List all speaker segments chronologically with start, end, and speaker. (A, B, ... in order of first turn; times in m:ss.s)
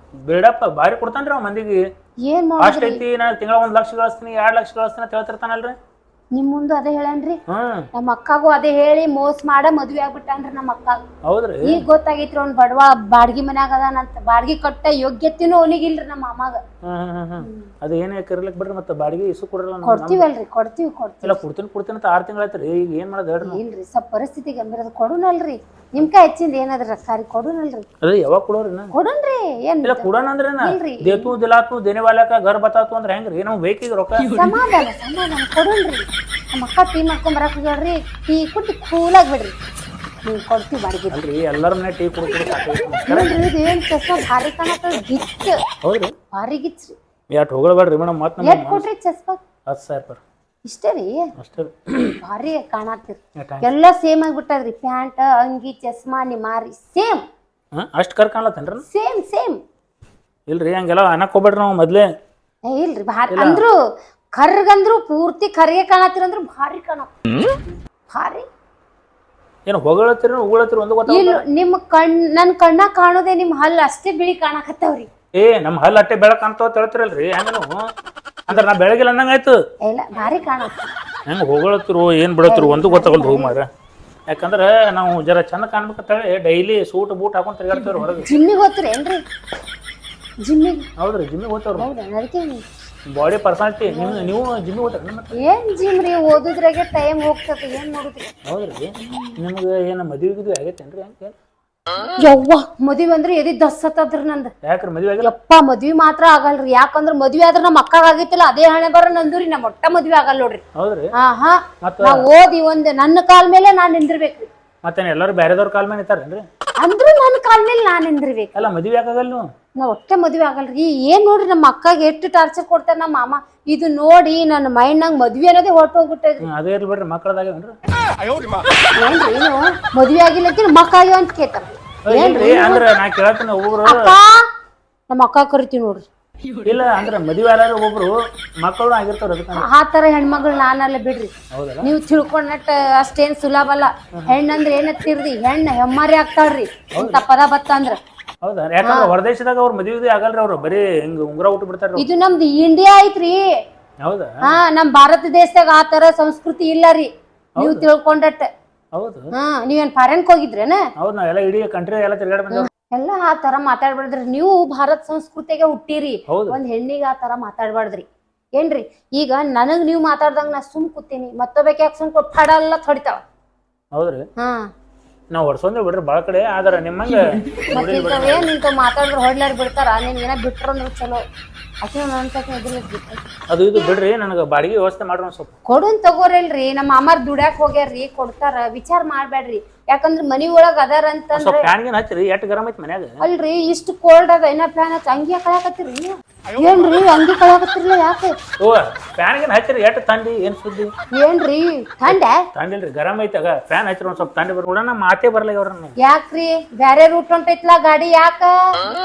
0:00.3-0:01.8 A
0:02.3-0:03.0 B
0:02.6-0:05.8 A
0:06.3-0:07.4 B
0:07.5-0:07.9 A
0:07.9-0:11.0 B
0:11.3-0:11.8 A
0:11.6-0:16.6 B
0:16.9-0:20.2 A
0:17.4-0:17.7 B
0:19.8-0:21.4 B
0:21.2-0:23.6 A
0:23.4-0:27.9 B
0:28.0-0:28.9 A
0:28.9-0:30.1 B
0:29.8-0:34.3 A
0:30.6-0:31.3 B
0:34.3-0:39.6 B
0:40.2-0:41.2 B
0:41.1-0:43.4 A
0:43.1-0:45.6 B
0:45.8-0:46.1 A
0:46.3-0:47.0 B
0:47.3-0:48.9 A
0:48.4-0:49.4 B
0:49.7-0:50.2 A
0:50.6-0:51.3 B
0:51.4-0:52.2 A
0:52.2-0:57.2 B
0:53.4-0:53.7 A
0:57.8-0:58.8 A
0:58.9-0:59.6 B
1:00.5-1:02.1 A
1:02.6-1:03.7 B
1:03.3-1:03.6 A
1:04.3-1:07.1 B
1:08.1-1:08.4 B
1:09.7-1:11.4 A
1:11.1-1:15.1 B
1:15.4-1:17.9 A
1:18.5-1:19.6 A
1:19.9-1:20.9 B
1:21.3-1:23.7 A
1:22.4-1:23.6 B
1:24.3-1:28.3 A
1:28.2-1:29.2 B
1:30.4-1:30.9 B
1:31.0-1:31.9 A
1:31.8-1:32.6 B
1:33.1-1:35.4 A
1:33.9-1:34.3 B
1:35.4-1:38.3 B
1:38.5-1:41.3 A
1:39.0-1:39.4 B
1:42.2-1:44.5 B
1:44.6-1:45.3 A
1:45.2-1:50.6 B
1:50.8-1:51.1 A
1:51.2-1:54.5 B
1:51.8-1:52.3 A
1:54.8-1:56.4 A
1:56.8-1:58.5 B
1:58.6-1:59.5 A
1:59.8-2:06.4 B
2:06.4-2:07.8 A
2:09.0-2:12.9 B
2:12.1-2:14.1 A
2:13.8-2:14.4 B
2:15.1-2:16.0 B
2:16.6-2:19.7 A
2:19.5-2:21.3 B
2:21.5-2:21.9 A
2:21.8-2:28.0 B
2:26.9-2:27.2 A
2:28.4-2:32.0 A
2:28.8-2:29.1 B
2:32.0-2:33.4 B
2:34.0-2:34.3 A
2:34.4-2:38.5 B
2:37.6-2:37.9 A
2:38.9-2:39.3 A
2:39.3-2:40.8 B
2:41.0-2:42.7 A
2:42.5-2:48.0 B
2:46.3-2:46.6 A
2:48.6-2:53.2 B
2:53.9-2:54.2 A
2:54.4-2:54.7 B
2:55.3-2:58.5 A
2:57.7-3:01.2 B
3:01.8-3:03.2 B
3:03.5-3:05.5 A
3:05.7-3:11.7 B
3:11.3-3:13.2 A
3:13.2-3:18.3 B
3:18.6-3:20.9 A
3:21.2-3:22.4 B
3:22.1-3:25.9 A
3:26.0-3:28.8 B